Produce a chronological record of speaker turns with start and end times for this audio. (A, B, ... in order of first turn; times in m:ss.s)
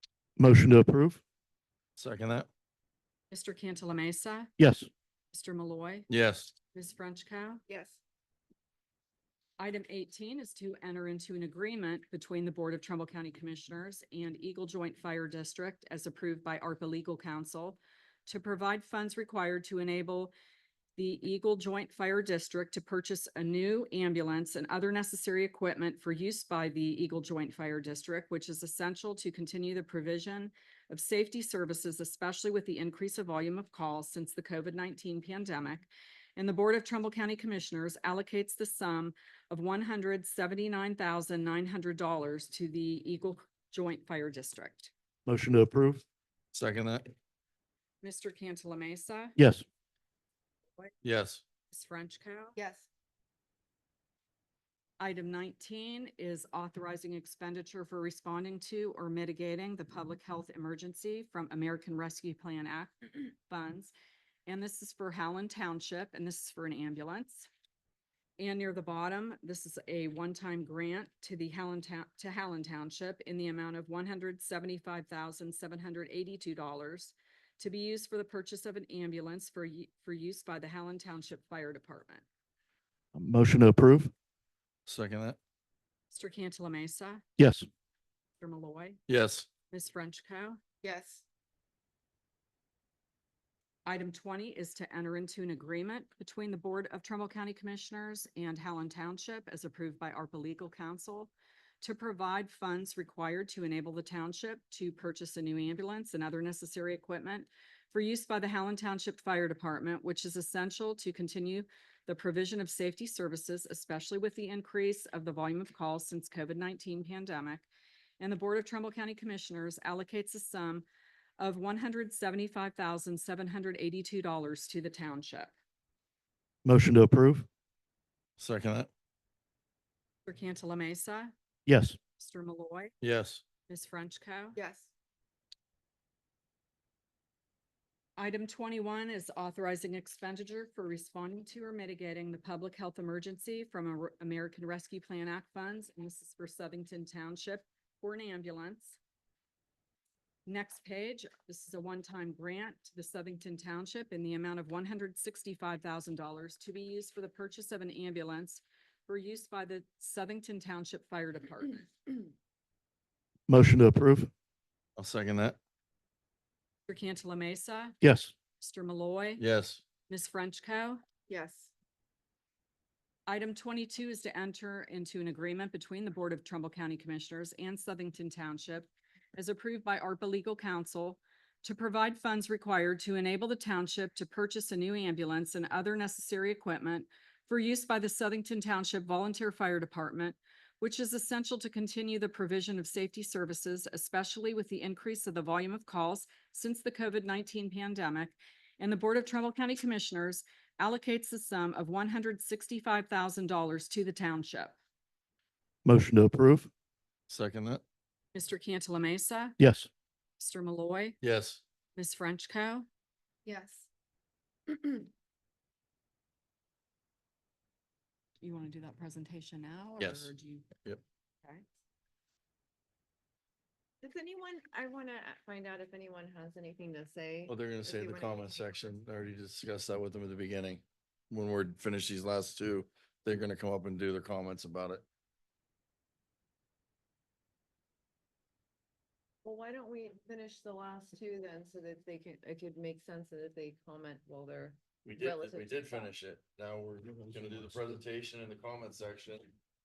0:00.4-0:01.2 A
0:02.0-0:02.5 B
0:03.3-0:04.5 C
0:04.6-0:04.9 A
0:05.3-0:06.1 C
0:06.1-0:06.5 B
0:06.7-0:07.6 C
0:07.7-0:08.0 D
0:09.6-0:20.3 C
0:21.0-0:44.9 C
0:45.3-0:46.0 A
0:46.5-0:47.1 B
0:48.0-0:49.4 C
0:49.4-0:49.6 A
0:51.0-0:51.4 B
0:51.7-0:52.6 C
0:52.6-0:52.9 D
0:55.0-1:03.9 C
1:04.4-1:07.5 C
1:08.4-1:22.2 C
1:23.1-1:24.1 A
1:24.8-1:25.4 B
1:26.1-1:27.2 C
1:27.4-1:27.7 A
1:28.4-1:29.0 C
1:29.1-1:29.5 B
1:29.7-1:30.6 C
1:30.8-1:31.2 D
1:33.8-1:57.6 C
1:58.2-2:00.8 C
2:01.4-2:05.5 C
2:06.6-2:07.5 A
2:08.4-2:08.9 B
2:10.2-2:11.3 C
2:11.7-2:12.0 A
2:12.2-2:12.9 C
2:13.0-2:13.4 B
2:13.7-2:14.6 C
2:14.6-2:14.9 D
2:18.2-2:29.0 C
2:30.4-2:41.9 C
2:43.5-2:44.3 A
2:45.0-2:45.6 B
2:46.9-2:48.0 C
2:48.0-2:48.3 A
2:48.6-2:49.4 C
2:49.4-2:49.8 B
2:50.1-2:51.0 C
2:51.3-2:51.7 D
2:53.3-3:24.7 C
3:25.8-3:26.7 A
3:27.3-3:27.8 B
3:28.3-3:29.6 C
3:29.6-3:29.9 A
3:30.4-3:31.2 C
3:31.2-3:31.6 B
3:32.0-3:32.9 C
3:33.4-3:33.9 D
3:34.7-3:35.1 D
3:38.4-3:40.7 C
3:40.0-3:40.3 B
3:44.0-3:48.9 D
3:47.5-3:55.0 B
3:59.4-4:06.1 D
4:05.0-4:09.5 B